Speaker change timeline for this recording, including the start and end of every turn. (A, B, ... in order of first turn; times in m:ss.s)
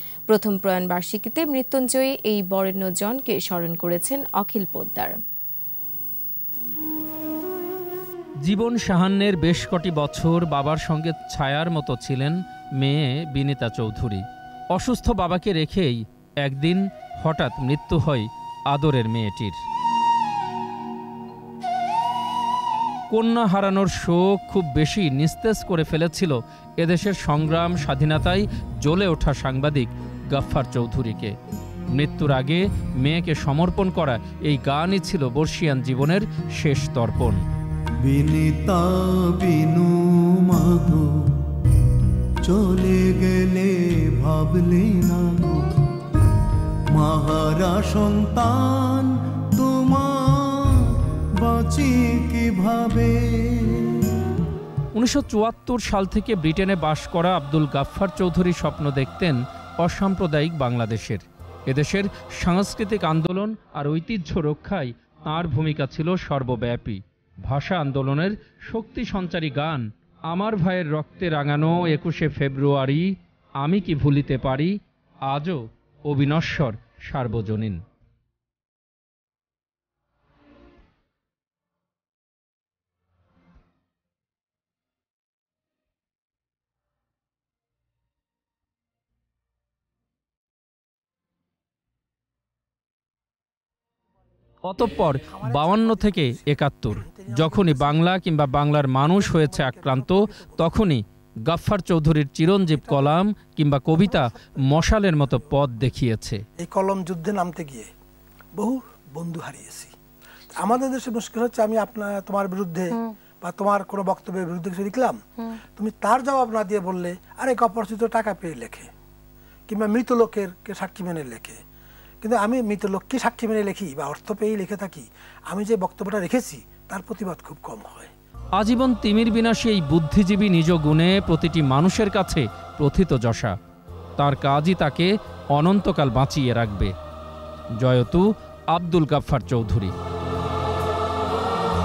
0:00.3-0:05.2 A
0:08.4-0:19.6 B
0:23.1-0:31.4 B
0:31.9-0:37.4 B
0:38.0-0:41.7 C
0:42.4-0:45.8 C
0:46.9-0:54.2 C
0:54.9-1:17.8 B
1:34.6-1:46.4 B
1:35.3-1:38.1 D
1:39.0-1:40.7 D
1:42.6-1:43.2 D
1:43.9-1:45.5 D
1:46.6-1:47.9 D
1:48.6-1:49.9 D
1:50.5-1:58.9 D
1:59.7-2:01.6 D
2:02.2-2:08.1 D
2:08.6-2:13.6 B
2:14.2-2:16.9 B
2:17.8-2:20.0 B